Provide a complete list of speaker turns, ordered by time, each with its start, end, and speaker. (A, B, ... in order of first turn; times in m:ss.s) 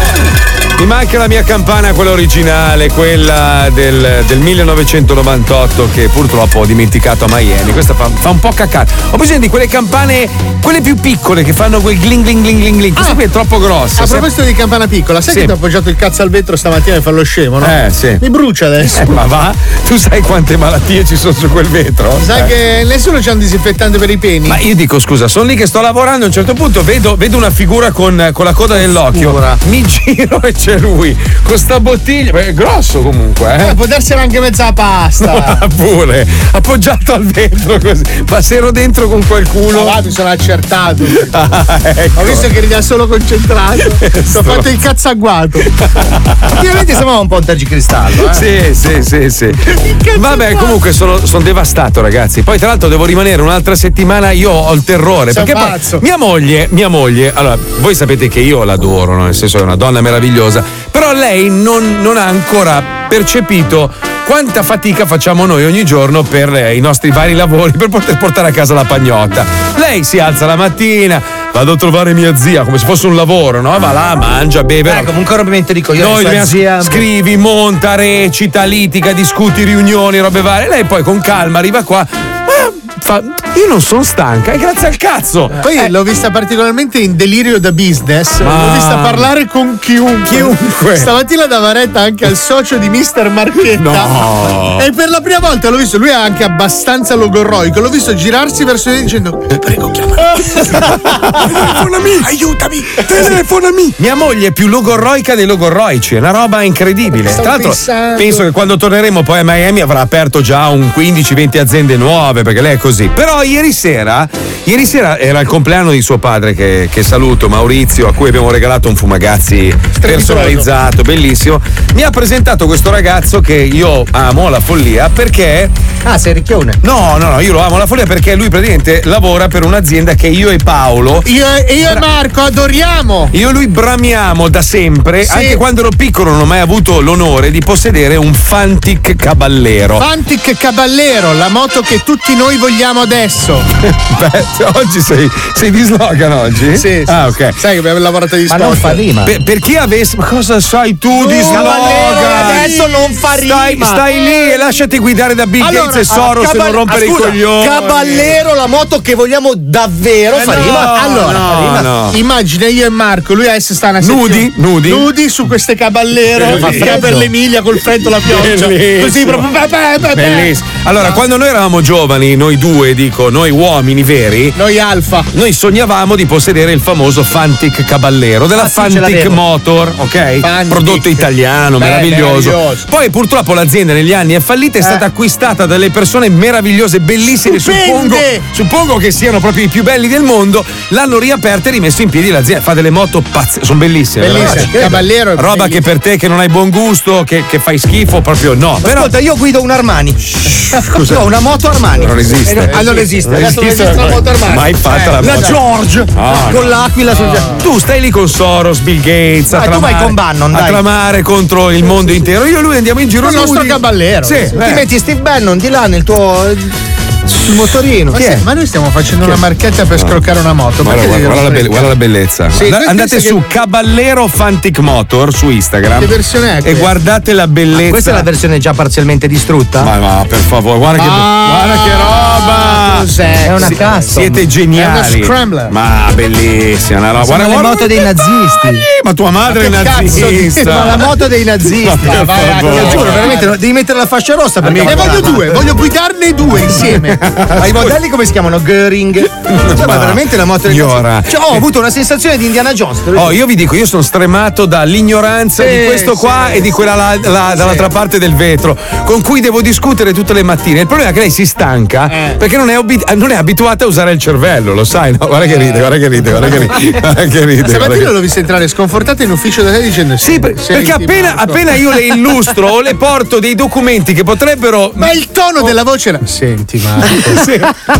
0:00.8-0:14.3 A
0:14.0-0:19.1 B
0:15.3-0:15.5 A
0:17.6-0:18.2 A
0:18.8-0:22.5 A
0:22.2-0:24.6 B
0:24.5-0:33.8 A
0:28.7-0:29.6 C
0:33.6-0:35.6 B
0:35.2-0:40.0 A
0:39.7-0:41.3 B
0:41.3-0:42.5 A
0:42.2-0:45.7 B
0:44.0-0:44.7 A
0:46.0-0:46.4 A
0:46.5-0:48.4 C
0:48.3-1:15.1 A
0:49.7-0:50.8 B
0:55.3-0:56.0 B
1:14.8-1:17.0 C
1:16.0-1:25.9 A
1:25.6-1:34.2 B
1:28.4-1:29.3 A
1:30.2-1:31.1 A
1:33.7-1:34.8 A
1:34.8-1:42.3 B
1:43.1-1:43.4 A
1:44.0-2:05.7 A
1:47.1-1:48.4 B
2:00.0-2:00.7 B
2:06.0-2:06.8 C
2:06.8-2:11.2 A
2:11.2-2:13.3 B
2:13.3-2:20.1 A
2:15.2-2:15.6 B
2:20.0-2:23.7 B
2:23.9-2:27.6 A
2:26.7-2:29.0 B
2:28.5-2:29.3 C
2:29.2-2:38.3 A
2:31.2-2:34.0 C
2:31.3-2:33.2 B
2:34.2-2:34.5 B
2:35.6-2:36.3 B
2:36.1-2:41.9 C
2:40.3-2:42.2 A
2:40.4-2:41.5 B
2:42.1-2:51.2 B
2:44.0-2:45.1 A
2:46.4-2:47.1 A
2:46.5-2:47.3 C
2:47.9-2:49.5 A
2:50.1-2:54.6 A
2:54.5-2:55.3 B
2:55.3-3:19.1 A
2:58.5-2:59.4 C
3:00.4-3:01.3 B
3:01.8-3:02.9 B
3:07.4-3:08.4 B
3:14.2-3:15.8 B
3:14.3-3:15.0 C
3:18.8-3:23.9 C
3:20.4-3:21.3 A
3:21.9-3:25.6 A
3:22.7-3:25.5 B
3:24.9-3:27.6 C
3:26.1-3:26.7 A
3:27.6-3:34.8 A
3:29.5-3:30.8 C
3:33.2-3:34.6 B
3:34.5-3:36.7 C
3:37.2-3:38.3 C
3:38.1-3:41.9 B
3:39.9-3:40.2 A
3:40.8-3:48.3 A
3:42.5-3:43.4 B
3:46.0-3:46.9 B
3:47.7-3:49.9 C
3:49.8-3:53.1 A
3:50.9-3:54.1 B
3:53.4-3:54.4 C
3:53.6-4:01.1 A
3:54.7-3:55.7 B
3:57.2-3:58.8 C
3:59.5-4:01.1 B
4:00.6-4:05.6 C
4:01.8-4:03.3 A
4:02.0-4:03.6 B
4:04.6-4:05.4 A
4:04.7-4:07.4 B
4:06.9-4:07.9 A
4:07.6-4:13.4 C
4:09.5-4:11.6 A
4:13.1-4:28.1 A
4:15.6-4:17.9 B
4:22.1-4:22.4 B
4:25.4-4:26.8 B
4:27.6-4:31.6 B
4:30.2-4:35.7 A
4:35.0-4:37.6 B
4:37.1-4:37.7 A